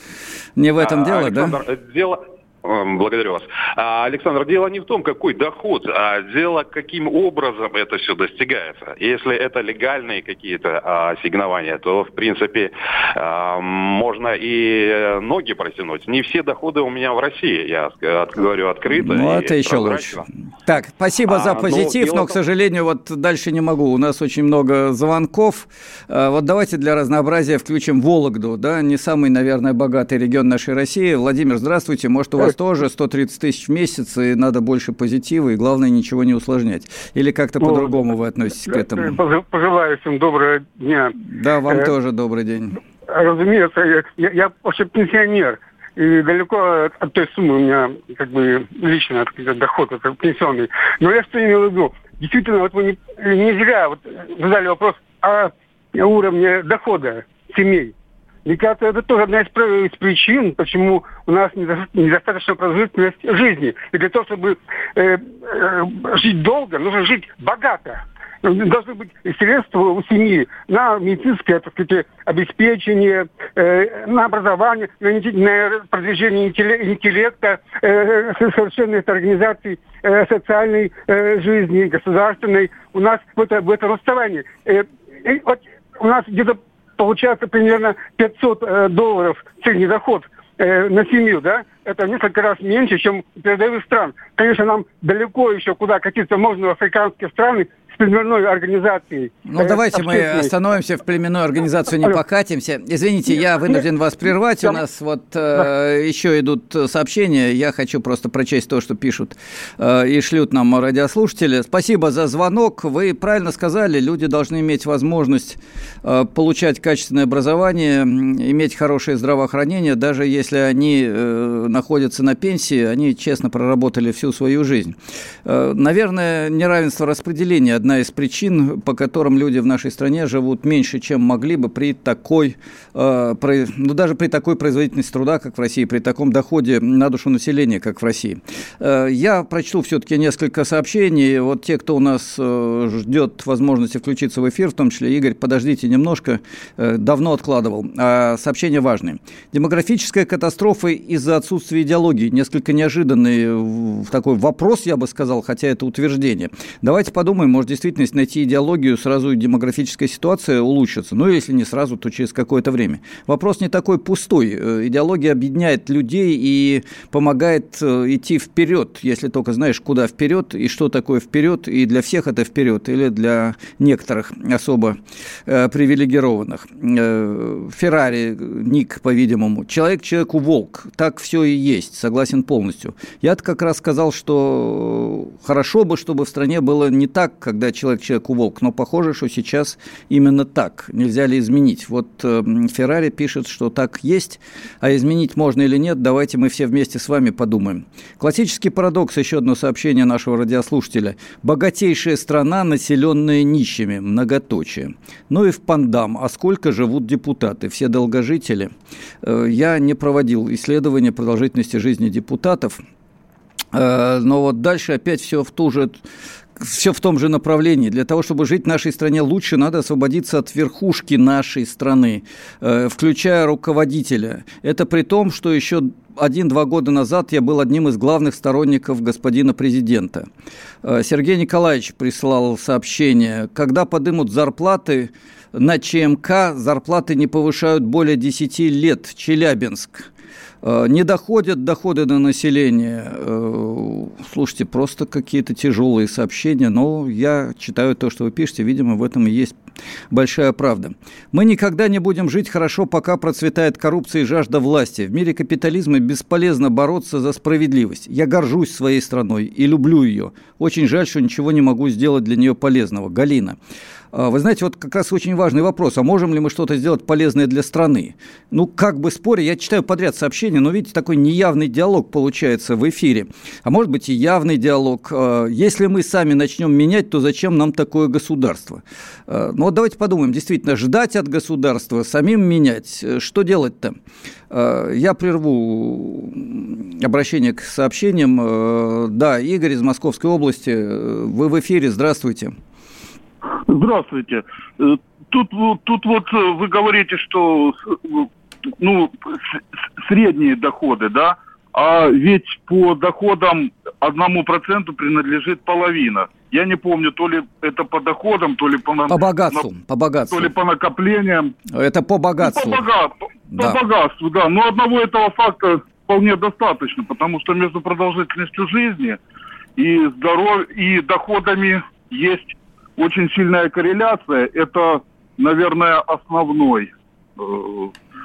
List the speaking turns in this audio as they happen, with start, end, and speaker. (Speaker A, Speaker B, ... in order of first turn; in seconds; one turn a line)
Speaker A: 0.6-1.6
Speaker B: 0.8-20.2
Speaker A: 18.9-39.2
Speaker B: 21.3-22.4
Speaker C: 37.6-38.0
Speaker C: 38.7-41.2
Speaker A: 41.3-42.8
Speaker C: 43.1-57.9
Speaker C: 58.5-100.5
Speaker A: 99.5-208.7
Speaker A: 209.2-212.8
Speaker A: 213.7-216.1
Speaker A: 216.6-230.3
Speaker A: 230.8-240.1
Speaker A: 240.6-249.6
Speaker A: 250.1-263.6
Speaker A: 264.1-284.0
Speaker A: 284.5-292.6
Speaker D: 293.7-298.3
Speaker D: 298.8-309.6
Speaker A: 309.1-310.5
Speaker D: 310.3-311.6
Speaker A: 311.7-312.9
Speaker D: 312.4-319.2
Speaker A: 313.6-313.8
Speaker D: 319.8-327.9